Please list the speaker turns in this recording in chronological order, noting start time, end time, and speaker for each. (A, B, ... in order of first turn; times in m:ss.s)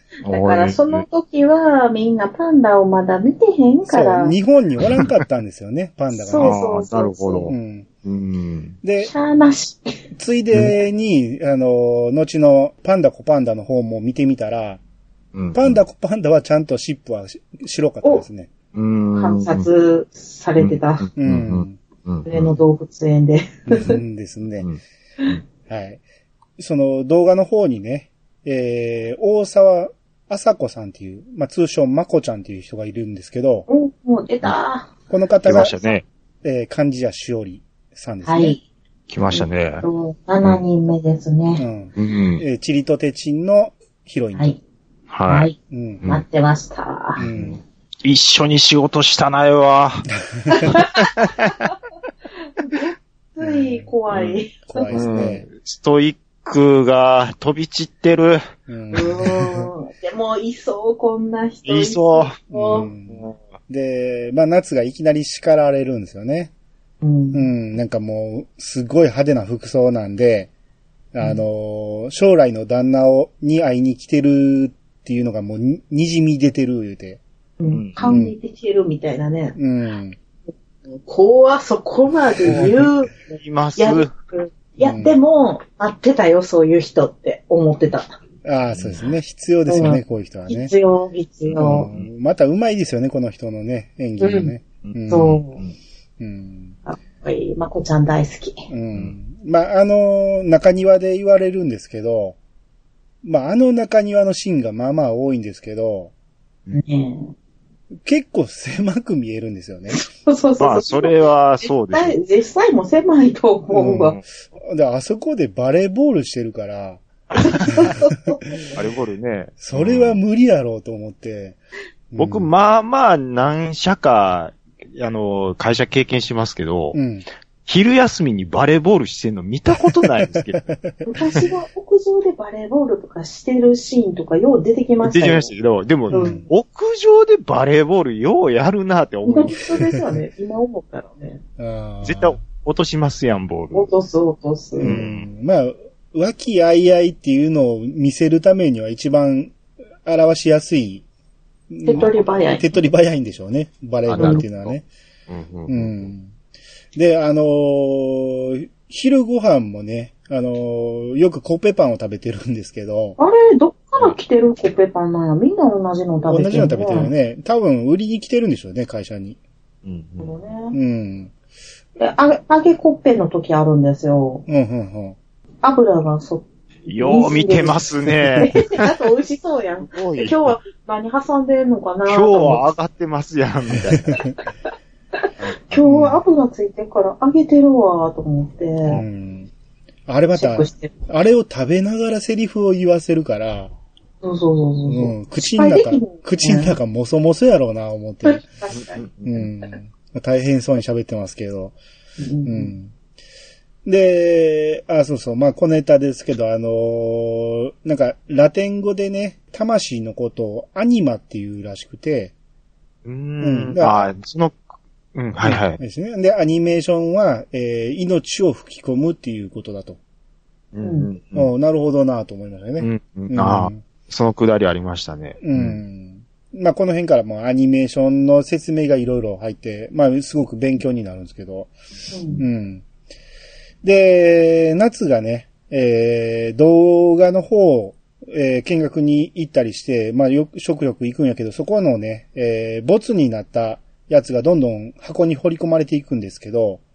0:00.2-0:04.3 A
0:00.2-0:01.0 B
0:03.9-0:06.6 C
0:06.1-0:07.5 A
0:06.4-0:08.8 B
0:07.5-0:07.9 C
0:08.8-0:09.1 C
0:09.0-0:10.0 A
0:10.1-0:14.8 C
0:15.3-0:15.8 B
0:15.5-0:18.5 C
0:18.7-0:19.6 B
0:19.1-0:21.1 A
0:20.6-0:22.6 B
0:21.2-0:21.8 C
0:22.2-0:24.0 A
0:23.7-0:24.7 C
0:24.6-0:25.4 B
0:25.7-0:26.0 C
0:26.6-0:33.6 C
0:33.7-0:34.9 A
0:35.1-0:35.8 C
0:35.4-0:36.0 B
0:36.4-0:38.6 C
0:38.2-0:38.6 A
0:39.1-0:39.8 B
0:39.3-0:41.6 A
0:41.6-0:44.6 C
0:42.0-0:42.4 B
0:45.1-0:45.5 B
0:45.3-0:47.2 A
0:45.7-0:46.0 C
0:47.2-0:47.6 C
0:47.2-0:50.0 B
0:50.1-0:50.8 C
0:50.5-0:51.1 A
0:50.6-0:51.3 B
0:52.6-0:54.9 A
0:53.4-0:53.9 C
0:54.1-0:54.4 B
0:54.7-0:55.5 C
0:54.9-0:58.4 B
0:58.7-0:59.7 C
0:58.9-1:02.9 A
1:01.6-1:03.4 B
1:02.5-1:06.5 C
1:07.0-1:07.5 A
1:07.3-1:10.5 C
1:11.1-1:17.2 C
1:17.6-1:19.6 A
1:17.7-1:18.0 B
1:18.0-1:18.3 C
1:19.6-1:20.2 C
1:20.9-1:28.1 A
1:22.5-1:22.7 C
1:23.3-1:24.1 B
1:24.8-1:25.1 C
1:28.4-1:30.7 C
1:28.7-1:29.1 B
1:29.7-1:31.9 A
1:31.4-1:32.1 B
1:31.6-1:35.4 C
1:34.2-1:34.5 A
1:34.8-1:35.7 B
1:35.1-1:35.6 A
1:36.2-1:36.8 C
1:36.8-1:38.7 A
1:38.7-1:42.4 C
1:43.2-1:46.1 C
1:46.7-1:47.3 A
1:48.0-1:50.0 C
1:49.9-1:54.2 A
1:50.6-1:52.2 B
1:53.7-1:57.0 C
1:57.4-1:58.8 A
1:57.6-1:58.0 C
1:58.7-2:00.2 B
1:59.6-2:01.6 C
2:02.1-2:02.5 C
2:02.2-2:07.0 B
2:06.9-2:07.2 C
2:07.6-2:10.6 B
2:10.2-2:11.1 C
2:11.0-2:15.5 A
2:15.0-2:19.6 B
2:16.1-2:16.4 C
2:16.1-2:16.4 A
2:19.2-2:21.4 A
2:21.6-2:22.4 C
2:22.0-2:23.9 B
2:23.7-2:24.9 A
2:24.8-2:25.3 B
2:24.8-2:31.0 C
2:31.7-2:34.8 C
2:31.8-2:32.7 A
2:34.0-2:34.8 B
2:34.2-2:34.4 A
2:35.3-2:36.1 B
2:35.7-2:36.3 C
2:36.9-2:43.2 C
2:43.2-2:47.1 A
2:46.2-2:49.4 C
2:49.8-2:50.3 B
2:50.2-2:50.8 A
2:50.7-2:51.3 C
2:52.0-2:54.4 A
2:54.5-2:55.2 C
2:55.6-2:57.8 A
2:56.8-2:58.8 B
2:58.4-3:02.6 A
2:59.9-3:00.6 B
3:02.0-3:04.2 B
3:04.0-3:04.3 C
3:05.2-3:09.0 A
3:05.4-3:06.1 B
3:05.8-3:06.2 C
3:08.9-3:09.5 C
3:10.1-3:13.7 C
3:10.3-3:10.9 A
3:14.2-3:16.8 A
3:14.9-3:18.4 C
3:18.2-3:19.0 A
3:18.7-3:19.5 B
3:19.2-3:21.7 C
3:22.2-3:22.7 A
3:22.4-3:22.9 C
3:23.8-3:32.3 C
3:33.0-3:34.6 B
3:33.4-3:34.1 C
3:35.1-3:35.8 B
3:35.4-3:40.0 C
3:40.7-3:41.5 B
3:40.8-3:41.1 A
3:41.3-3:43.8 C
3:42.8-3:45.8 B
3:45.4-3:51.7 C
3:52.1-3:52.4 A
3:52.4-3:52.8 C
3:53.8-4:06.8 C